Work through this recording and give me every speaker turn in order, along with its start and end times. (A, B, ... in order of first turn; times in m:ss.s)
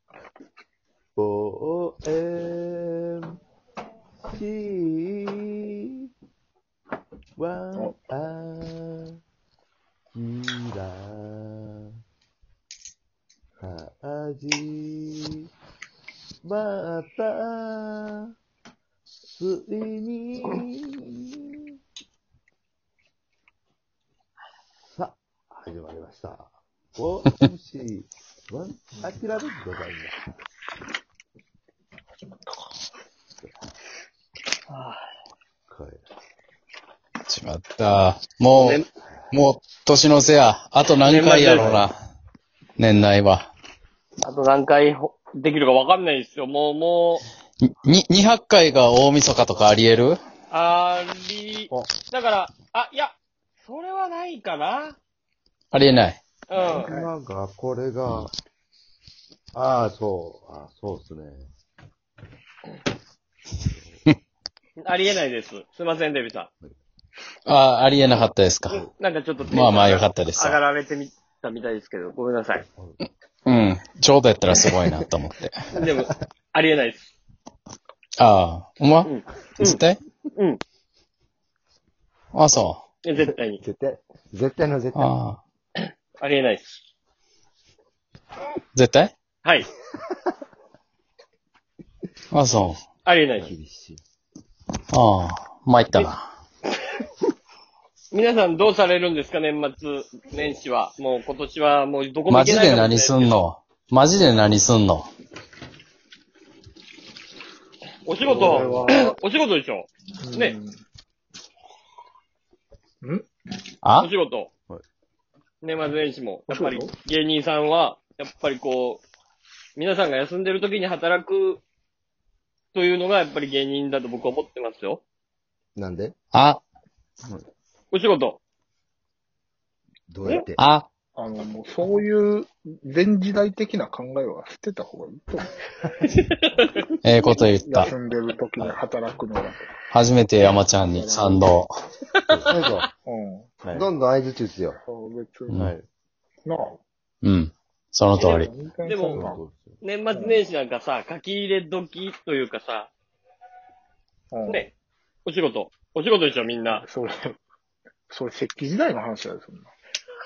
0:01.2-0:03.4 A
0:04.3-0:05.7 A
0:07.4-0:09.2 A
0:10.1-0:11.9 A
0:13.6-0:15.5 A
0:16.4-0:18.3 A
0:19.2-0:21.7 A
0:24.9-0:30.2 A
0:32.4-0:32.7 B
0:34.7-0:35.0 C
0:35.7-0:36.0 A
0:37.2-0:41.9 D
0:38.6-0:38.9 C
0:41.0-0:41.8 C
0:42.8-0:43.5 D
0:44.2-0:47.2 C
0:47.6-0:50.2 D
0:50.5-0:55.0 C
0:55.7-0:56.2 D
0:56.5-0:57.0 C
0:56.6-0:58.3 A
0:59.5-1:01.5 A
1:03.7-1:04.0 A
1:04.8-1:06.5 C
1:07.4-1:08.9 D
1:08.8-1:12.6 C
1:09.5-1:10.6 D
1:13.4-1:15.7 D
1:15.8-1:17.1 C
1:18.2-1:20.0 D
1:19.0-1:19.8 C
1:22.3-1:22.8 D
1:23.0-1:23.6 C
1:23.6-1:25.1 E
1:24.9-1:25.4 D
1:26.2-1:26.8 C
1:28.7-1:29.1 D
1:32.3-1:32.8 D
1:33.0-1:33.5 C
1:33.3-1:34.0 E
1:34.9-1:36.3 D
1:38.1-1:43.4 C
1:42.3-1:45.1 D
1:48.0-1:50.6 C
1:48.2-1:49.2 B
1:48.3-1:48.8 A
1:48.4-1:48.8 E
1:50.2-1:50.8 B
1:53.8-1:54.1 D
1:54.0-1:54.5 C
1:55.6-1:59.0 C
1:56.5-1:57.0 B
1:59.8-2:01.6 C
2:02.7-2:05.0 C
2:05.8-2:06.1 E
2:06.3-2:06.6 D
2:07.9-2:08.4 C
2:10.1-2:10.6 E
2:10.6-2:10.9 D
2:11.1-2:15.5 B
2:16.2-2:16.8 C
2:17.0-2:17.9 D
2:17.4-2:19.6 B
2:19.9-2:21.7 D
2:20.4-2:21.5 B
2:22.3-2:22.9 E
2:23.0-2:23.5 B
2:23.7-2:24.8 E
2:24.9-2:25.7 B
2:25.5-2:25.7 D
2:25.5-2:25.8 A
2:26.4-2:26.8 B
2:27.2-2:28.5 D
2:28.2-2:29.2 C
2:28.2-2:29.4 B
2:29.1-2:29.8 A
2:29.8-2:32.9 C
2:30.1-2:30.4 B
2:34.3-2:34.7 B
2:35.2-2:36.8 C
2:36.8-2:37.4 B
2:38.1-2:39.7 B